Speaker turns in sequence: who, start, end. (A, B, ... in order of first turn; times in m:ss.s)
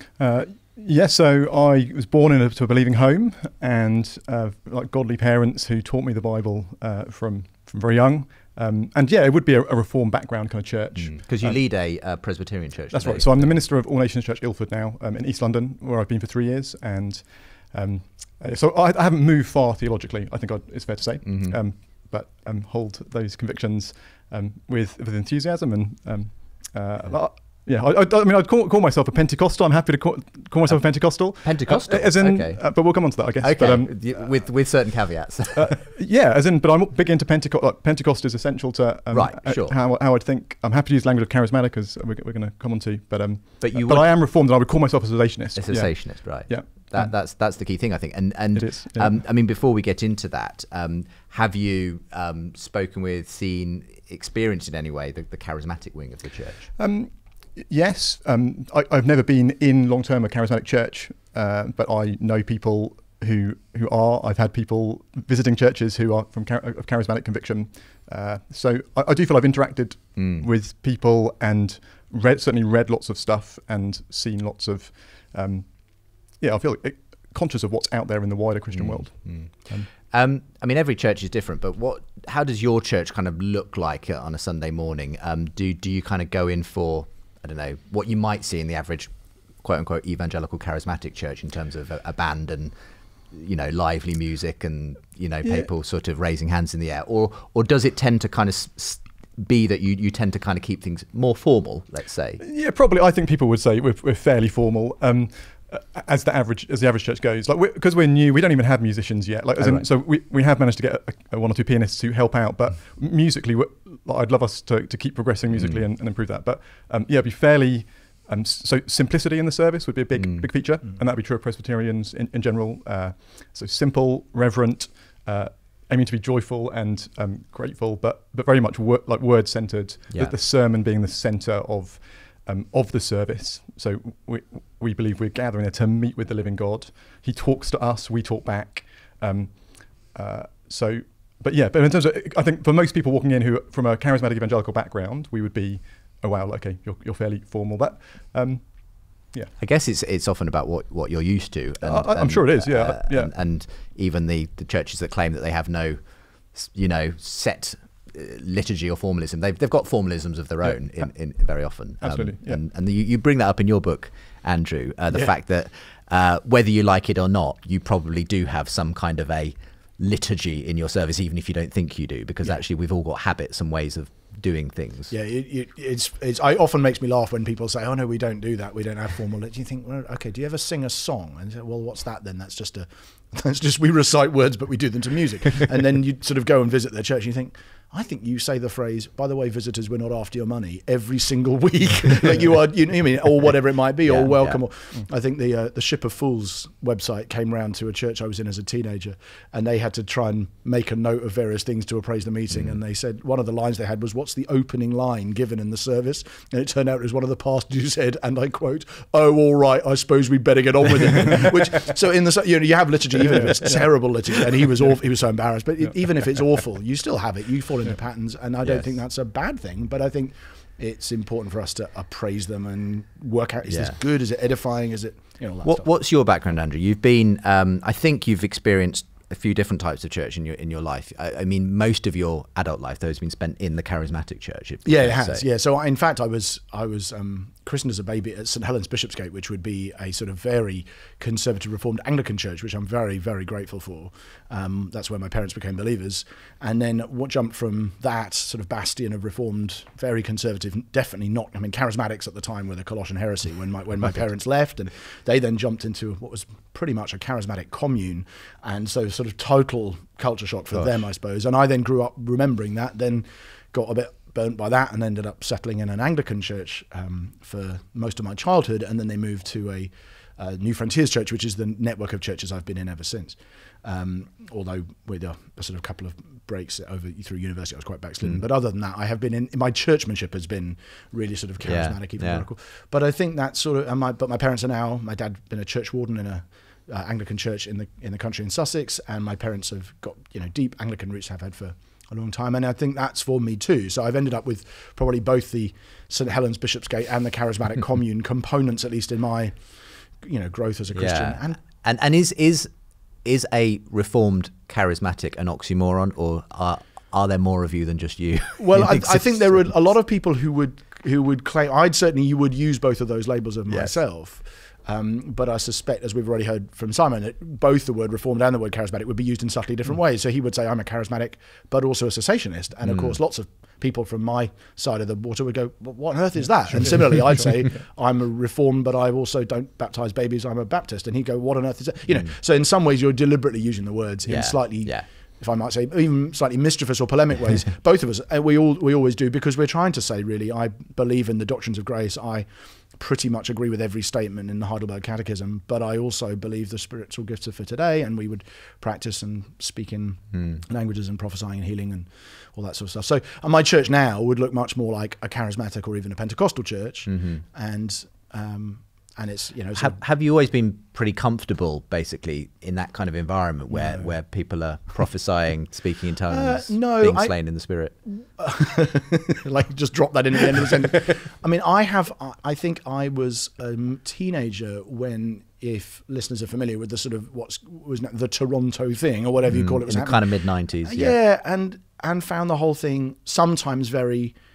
0:00.2-0:11.6 A
0:11.0-0:13.6 B
0:12.9-0:34.0 A
0:21.2-0:21.6 B
0:30.7-0:32.6 B
0:33.4-0:35.8 B
0:35.6-0:47.1 A
0:39.1-0:39.8 B
0:43.6-0:44.1 B
0:45.6-0:56.7 B
0:48.5-0:49.2 A
0:56.8-1:15.7 A
1:10.2-1:10.4 B
1:16.4-1:19.9 A
1:18.7-1:19.5 B
1:20.1-1:29.1 B
1:29.6-1:32.7 B
1:33.3-1:42.4 B
1:42.4-2:28.6 A
1:49.6-1:49.9 B
1:55.5-1:55.8 B
2:00.2-2:00.5 B
2:29.6-2:36.0 B
2:31.8-2:33.3 A
2:36.5-2:55.1 B
2:42.0-2:42.6 A
2:55.1-3:45.9 C
3:14.1-3:14.6 B
3:33.2-3:33.9 A
3:43.7-3:44.0 B
3:45.6-3:55.4 B
3:54.8-4:59.6 C
4:41.6-4:42.4 B
5:00.2-5:01.6 C
5:00.9-5:02.7 B
5:03.2-5:09.7 B
5:08.6-6:00.0 C
5:22.9-5:23.2 B
5:34.3-5:35.1 B
5:50.3-5:50.6 B
5:57.1-5:57.4 B
5:59.8-6:08.0 B
6:06.3-6:07.4 C
6:08.1-6:20.3 C
6:19.5-6:21.2 B
6:20.8-6:24.4 C